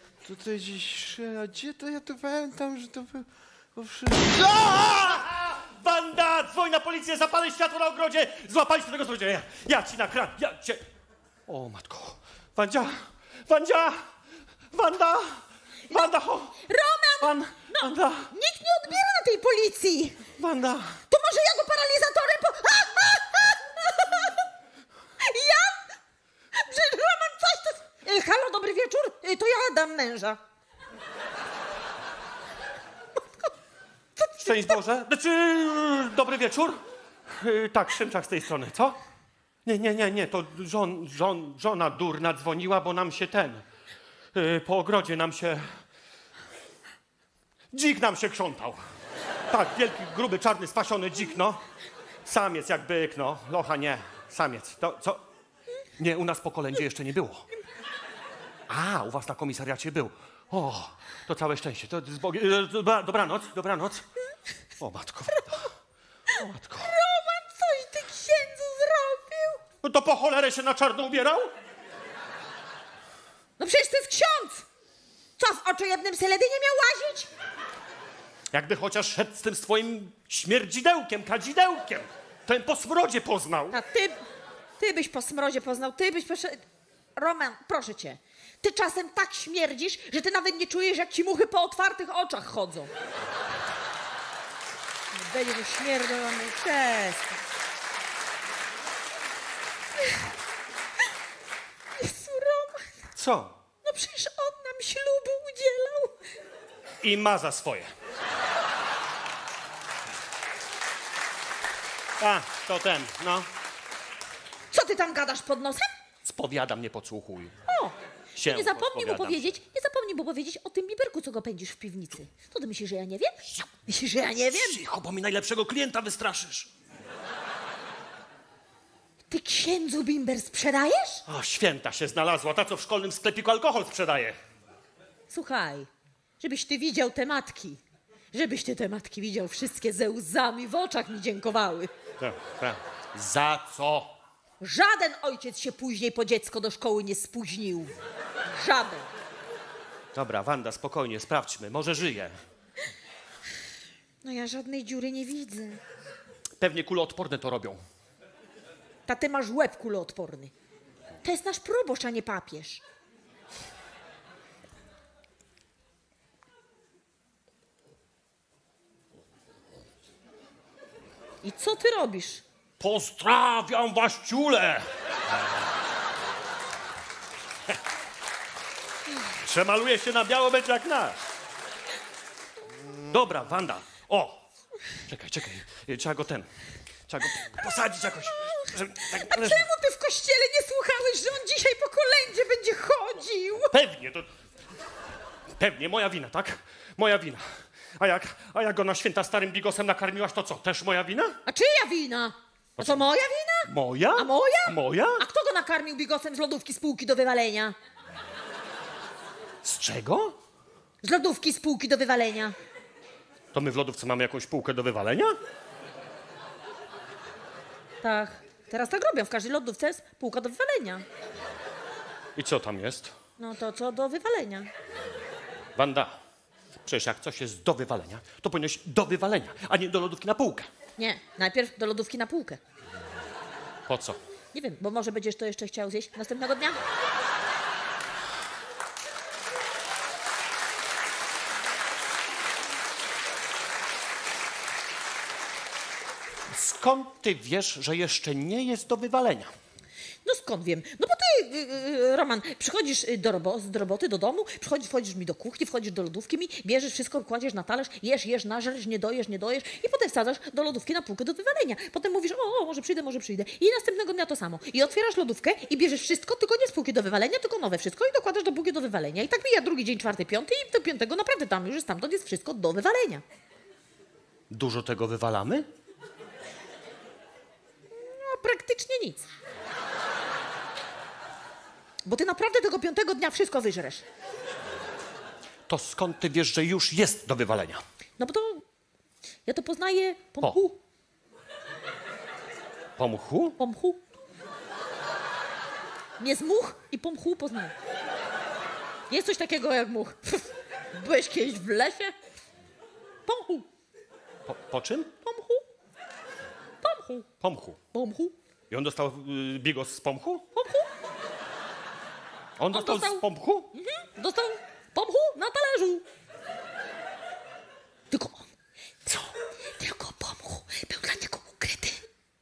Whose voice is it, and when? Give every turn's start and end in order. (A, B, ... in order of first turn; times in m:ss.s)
0:00.2-0:05.2 A
0:04.3-0:10.8 B
0:11.5-0:14.1 B
0:14.7-0:16.5 B
0:15.9-0:20.2 C
0:17.2-0:18.3 B
0:20.4-0:21.0 B
0:21.1-0:24.4 C
0:25.2-0:25.9 C
0:26.5-0:30.4 C
0:34.2-0:34.8 C
0:34.4-0:39.0 B
0:39.6-0:43.6 B
0:44.3-0:45.8 B
0:47.7-0:48.8 B
0:49.5-0:51.6 B
0:52.2-0:55.2 B
0:56.0-0:57.5 B
0:58.7-1:04.0 B
1:04.8-1:05.7 B
1:06.3-1:06.9 B
1:06.4-1:09.6 C
1:09.8-1:11.5 B
1:13.6-1:14.6 C
1:15.4-1:17.3 C
1:18.5-1:23.8 B
1:23.7-1:24.2 C
1:24.8-1:26.6 C
1:27.2-1:32.9 C
1:35.1-1:37.4 C
1:40.0-1:40.3 C
1:42.0-1:43.1 C
1:43.2-1:43.6 B
1:43.8-1:46.3 C
1:47.0-1:47.9 B
1:52.2-1:53.5 B
1:54.7-1:55.9 C
1:56.2-1:57.5 B
1:57.7-2:04.8 C
1:58.4-1:59.5 B
2:04.5-2:06.7 B
2:09.3-2:11.2 C
2:11.2-2:14.4 B
2:15.3-2:15.9 C
2:16.4-2:17.8 C
2:18.3-2:21.9 C
2:22.2-2:24.1 B
2:24.6-2:27.9 C
2:28.5-2:29.1 C
2:30.1-2:32.4 B
2:34.2-2:35.8 C
2:36.6-2:37.8 B
2:39.1-2:40.5 C
2:41.2-2:42.8 C
2:51.4-2:52.4 C
2:52.8-2:54.9 B
2:59.4-3:01.2 B
3:03.0-3:04.4 B
3:05.0-3:06.5 B
3:07.1-3:09.6 B
3:08.4-3:13.7 C
3:13.7-3:14.3 B
3:15.6-3:21.4 B
3:21.4-3:27.8 C
3:22.8-3:23.1 B
3:23.7-3:25.2 B
3:29.6-3:30.4 B
3:31.0-3:32.5 C
3:33.5-3:35.3 B
3:38.0-3:41.0 C
3:42.4-3:43.1 B
3:43.4-3:44.7 C
3:45.8-3:46.2 B
3:46.8-3:50.7 B
3:51.0-3:52.6 C
3:53.9-3:54.2 B
3:54.5-3:56.8 C
4:06.5-4:09.5 B
4:10.2-4:33.2 C
4:34.5-4:35.6 B
4:37.9-4:39.2 C
4:42.0-4:44.0 C
4:45.7-4:47.8 B
4:48.2-4:48.6 C
4:49.4-4:50.8 C
4:53.0-4:53.6 B
4:53.6-4:54.0 C
4:56.2-4:57.7 C
4:59.1-5:02.1 C
5:03.2-5:03.6 C
5:04.4-5:05.1 B
5:05.2-5:05.6 C
5:06.8-5:07.3 C
5:07.4-5:07.8 B
5:07.9-5:08.3 C
5:08.7-5:10.4 B
5:10.5-5:10.9 C
5:12.6-5:13.7 B
5:12.7-5:13.2 C
5:13.7-5:16.0 C
5:18.1-5:18.5 C
5:19.0-5:22.1 C